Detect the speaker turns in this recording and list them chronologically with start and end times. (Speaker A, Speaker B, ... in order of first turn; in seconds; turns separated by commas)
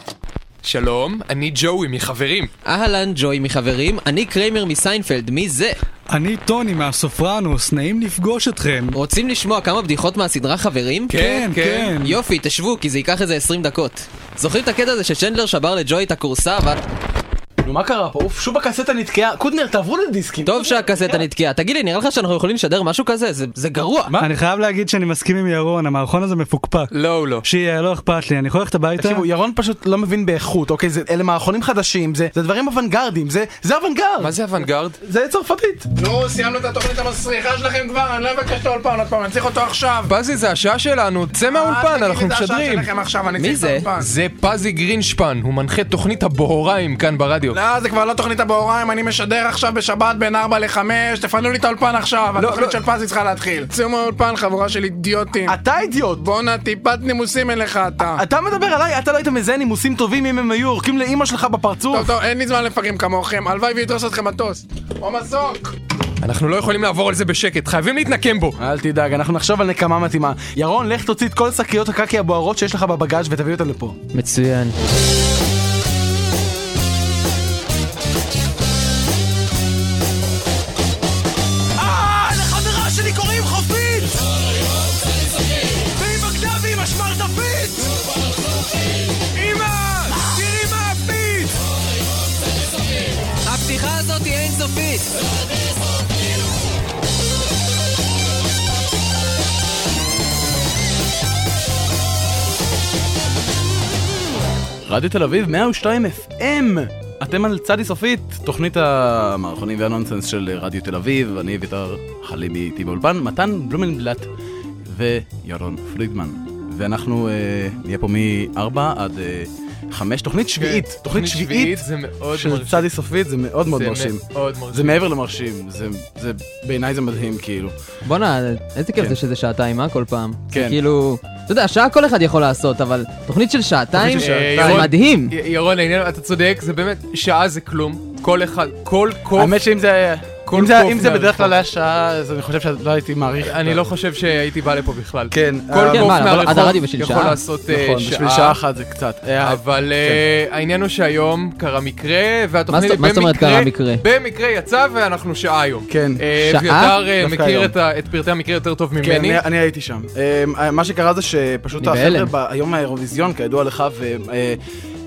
Speaker A: 0.6-2.5, Speaker B: 2.6-5.8, Speaker C: 6.1-9.0, Speaker B: 8.9-11.2, Speaker A: 11.1-12.0, Speaker C: 11.1-12.2, Speaker B: 12.0-16.8, Speaker D: 17.6-21.2, Speaker B: 20.4-24.1, Speaker C: 24.2-26.9, Speaker A: 26.9-27.4, Speaker C: 27.4-29.2, Speaker D: 28.9-34.3, Speaker A: 34.2-35.0, Speaker D: 35.0-35.9, Speaker E: 36.0-40.1, Speaker A: 40.1-42.9, Speaker E: 41.5-44.1, Speaker B: 43.4-43.8, Speaker A: 44.0-47.6, Speaker E: 47.5-55.6, Speaker A: 52.4-52.8, Speaker D: 55.5-56.2, Speaker E: 56.2-58.2, Speaker D: 58.1-62.1, Speaker E: 61.9-65.7, Speaker A: 66.2-68.6, Speaker D: 68.6-74.0, Speaker B: 74.1-74.8, Speaker F: 82.9-84.0, Speaker F: 86.1-87.8, Speaker A: 89.3-90.2, Speaker B: 93.4-95.1, Speaker D: 104.8-114.3, Speaker D: 114.9-124.2, Speaker A: 120.5-122.9, Speaker A: 123.7-125.1, Speaker D: 124.7-127.7, Speaker B: 128.0-135.3, Speaker D: 130.5-130.8, Speaker D: 133.9-134.9, Speaker A: 134.2-139.6, Speaker D: 139.3-143.9, Speaker A: 140.4-141.6, Speaker A: 143.4-148.6, Speaker D: 145.3-146.8, Speaker B: 145.9-147.4, Speaker D: 147.7-150.2, Speaker A: 149.4-159.4, Speaker B: 152.7-154.0, Speaker D: 155.9-156.2, Speaker B: 156.4-156.9, Speaker D: 157.2-157.7, Speaker D: 159.0-164.6, Speaker B: 161.8-162.3